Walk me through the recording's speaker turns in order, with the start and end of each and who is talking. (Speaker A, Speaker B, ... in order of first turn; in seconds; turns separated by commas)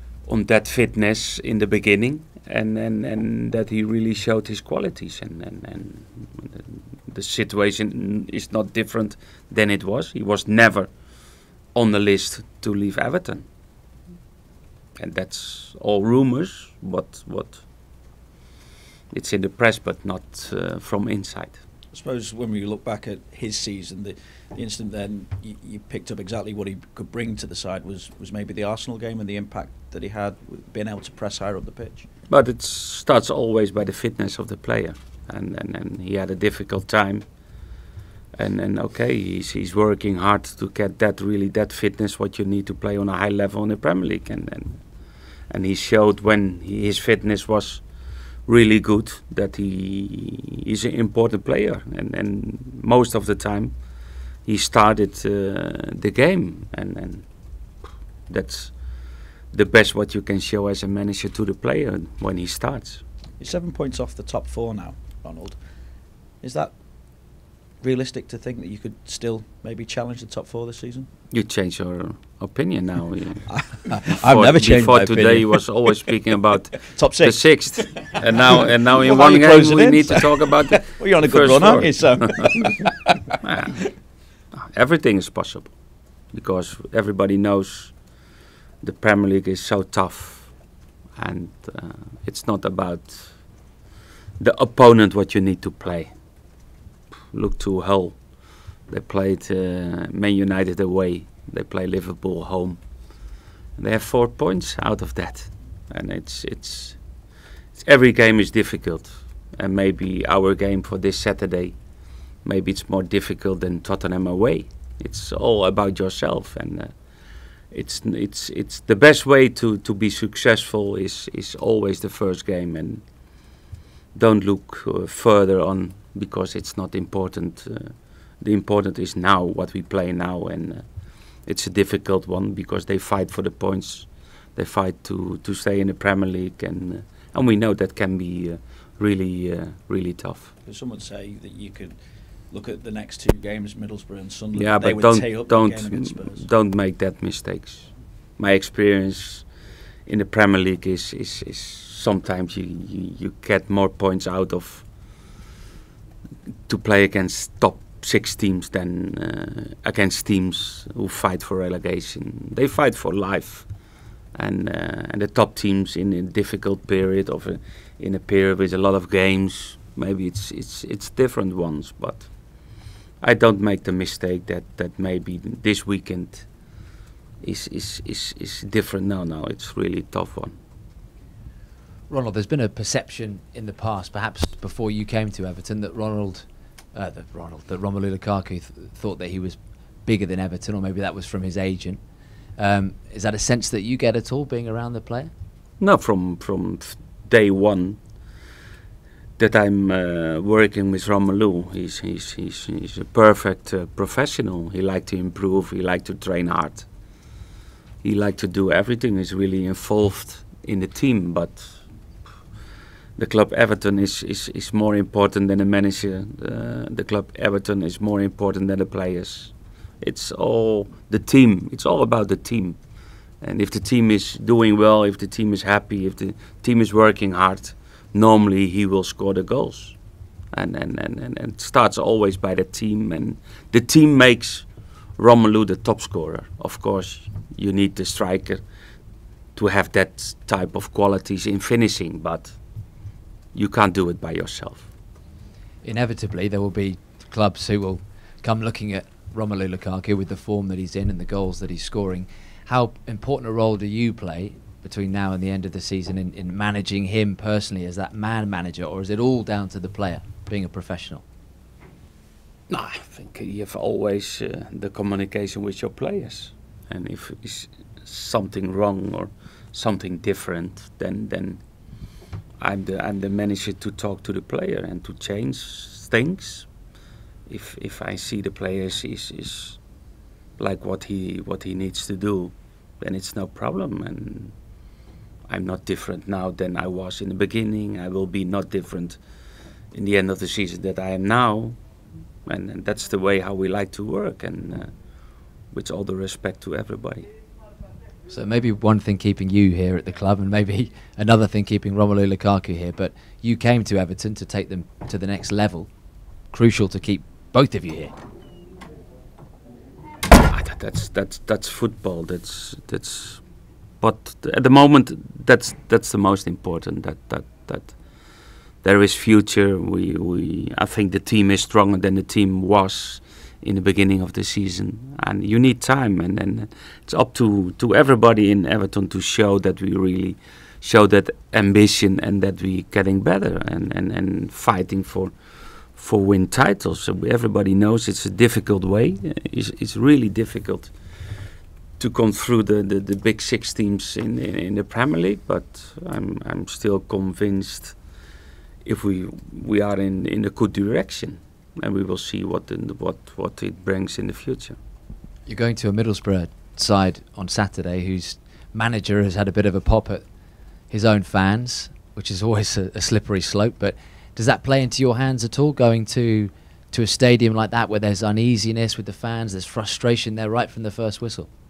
Speaker A: 0.2-13.5, Speaker A: 15.0-17.7, Speaker A: 19.1-21.6, Speaker B: 21.9-32.1, Speaker A: 32.3-37.3, Speaker A: 38.4-47.9, Speaker A: 48.5-53.8, Speaker A: 54.5-57.3, Speaker A: 58.3-63.0, Speaker B: 63.4-65.6, Speaker B: 66.4-66.7, Speaker B: 67.8-71.1, Speaker A: 71.3-82.4, Speaker B: 73.5-76.0, Speaker B: 76.8-83.0, Speaker A: 83.4-83.8, Speaker A: 84.5-93.7, Speaker A: 94.4-96.2, Speaker A: 97.3-107.0, Speaker A: 107.7-111.8, Speaker A: 112.4-123.5, Speaker A: 124.1-140.5, Speaker B: 140.6-141.9, Speaker B: 142.5-146.5, Speaker A: 144.6-149.5, Speaker A: 150.1-155.4, Speaker A: 156.7-163.7, Speaker A: 164.3-180.6, Speaker C: 182.1-192.0, Speaker C: 192.6-195.3, Speaker A: 195.8-198.2, Speaker A: 199.4-206.9, Speaker A: 208.0-211.8, Speaker A: 213.2-222.8, Speaker A: 223.4-230.0, Speaker A: 230.5-238.6, Speaker A: 239.5-244.9, Speaker C: 245.8-261.2, Speaker A: 262.7-271.6, Speaker A: 272.6-276.7, Speaker A: 277.5-279.8, Speaker A: 280.6-284.6, Speaker A: 285.5-289.2, Speaker A: 289.9-291.8, Speaker A: 292.5-297.3, Speaker C: 298.3-308.1, Speaker A: 310.5-341.0, Speaker A: 342.0-348.0, Speaker A: 348.8-354.8, Speaker C: 355.5-360.3, Speaker C: 360.9-371.5